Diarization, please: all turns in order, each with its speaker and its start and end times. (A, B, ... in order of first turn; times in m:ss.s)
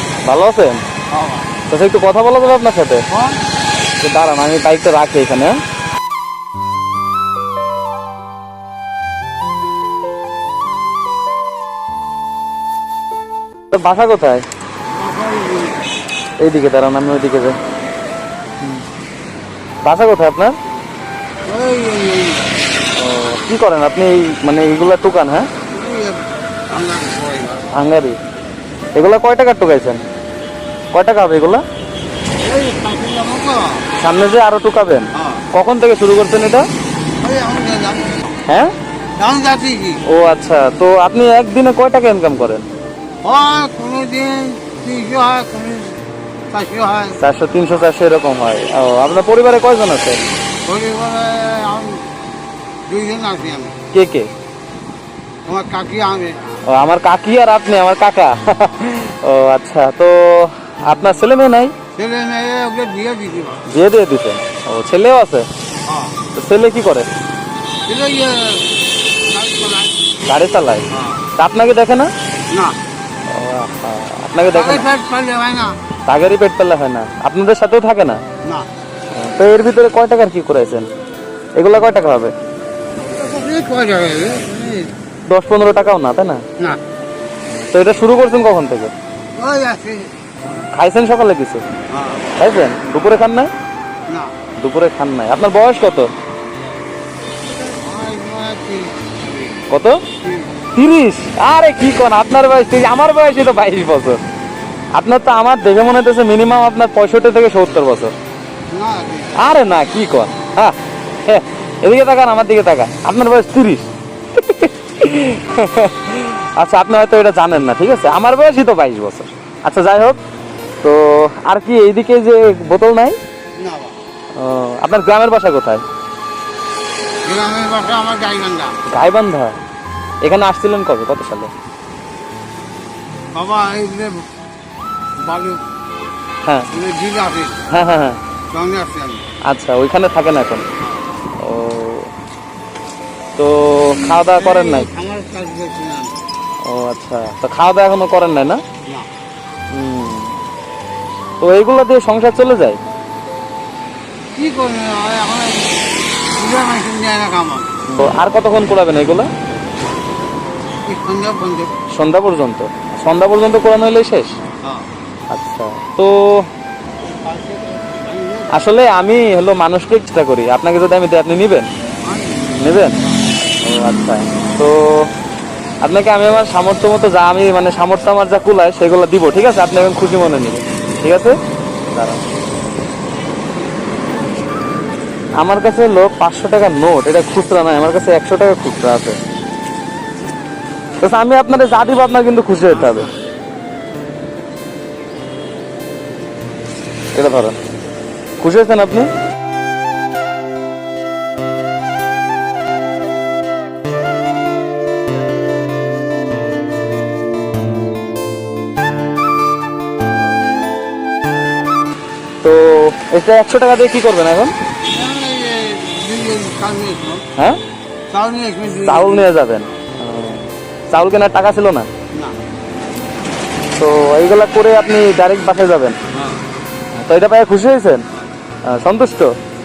0:00.2-0:00.8 A
0:01.1-0:01.5 B
0:01.6-0:03.0 A
0:03.1-0:03.4 B
0:04.0-0:05.6 A
0:13.7-0:14.4 A
0:14.9-0:15.8 B
0:16.4-0:17.6 A
0:19.8-0:20.6 A
0:21.4-0:22.5 B
0:22.9-0:25.5 A
0:25.6-0:27.6 B
0:27.7-0:28.2 A
0:28.9-0:30.0 A
0:30.9-0:31.6 A
0:32.4-0:33.8 B
0:33.9-0:36.6 A
0:35.1-0:35.4 B
0:37.2-0:38.3 B
0:38.4-0:38.7 A
0:39.2-0:40.0 B
0:40.0-0:42.7 A
0:43.2-0:46.0 B
0:46.5-0:47.2 B
0:47.2-0:50.2 A
0:50.6-0:52.0 B
0:52.9-0:53.8 B
0:53.9-0:54.3 A
0:55.4-0:56.4 B
0:56.6-1:01.7 A
1:01.9-1:03.6 B
1:03.6-1:05.5 A
1:05.8-1:06.2 B
1:06.2-1:07.1 A
1:07.8-1:10.1 B
1:10.2-1:12.1 A
1:10.9-1:11.3 B
1:12.5-1:12.8 B
1:13.3-1:14.9 A
1:14.5-1:15.8 B
1:16.0-1:18.2 A
1:18.4-1:18.7 B
1:19.1-1:20.9 A
1:21.6-1:22.3 A
1:23.0-1:25.0 B
1:25.2-1:26.4 A
1:27.5-1:28.9 A
1:29.3-1:30.1 B
1:30.5-1:31.6 A
1:31.9-1:32.2 B
1:32.2-1:33.5 A
1:34.1-1:34.4 B
1:34.5-1:36.1 A
1:37.6-1:39.6 B
1:39.7-1:40.1 A
1:40.1-1:40.6 B
1:40.6-1:44.2 A
1:44.9-1:48.1 A
1:48.7-1:49.4 B
1:49.3-2:00.2 A
2:00.8-2:03.2 A
2:03.6-2:04.0 B
2:04.3-2:05.8 A
2:07.2-2:08.8 B
2:08.8-2:09.6 A
2:10.2-2:11.5 A
2:13.3-2:14.2 B
2:15.2-2:15.6 B
2:16.4-2:16.7 A
2:16.7-2:17.6 B
2:17.7-2:18.2 A
2:18.5-2:19.2 B
2:19.4-2:20.6 A
2:20.8-2:21.0 B
2:21.3-2:22.1 A
2:23.3-2:24.9 A
2:24.3-2:26.2 B
2:26.6-2:28.6 A
2:28.8-2:29.1 B
2:29.7-2:30.4 A
2:31.4-2:32.8 A
2:34.3-2:35.8 B
2:36.3-2:37.7 B
2:37.9-2:39.3 A
2:40.8-2:41.8 B
2:41.8-2:44.4 A
2:45.3-2:46.5 A
2:47.0-2:48.6 B
2:48.5-2:51.7 A
2:52.0-2:53.2 B
2:52.5-2:53.0 A
2:53.6-2:55.1 A
2:55.8-3:01.4 A
3:01.9-3:02.2 A
3:05.4-3:09.2 A
3:11.0-3:13.1 A
3:12.7-3:13.1 B
3:17.1-3:17.6 A
3:18.4-3:19.1 A
3:32.4-3:34.5 A
3:34.8-3:37.2 B
3:37.3-3:37.6 A
3:38.1-3:39.3 B
3:38.8-3:41.9 A
3:42.1-3:42.4 B
3:43.7-3:46.0 A
3:46.1-3:46.4 B
3:46.9-3:48.0 A
3:48.6-3:49.3 A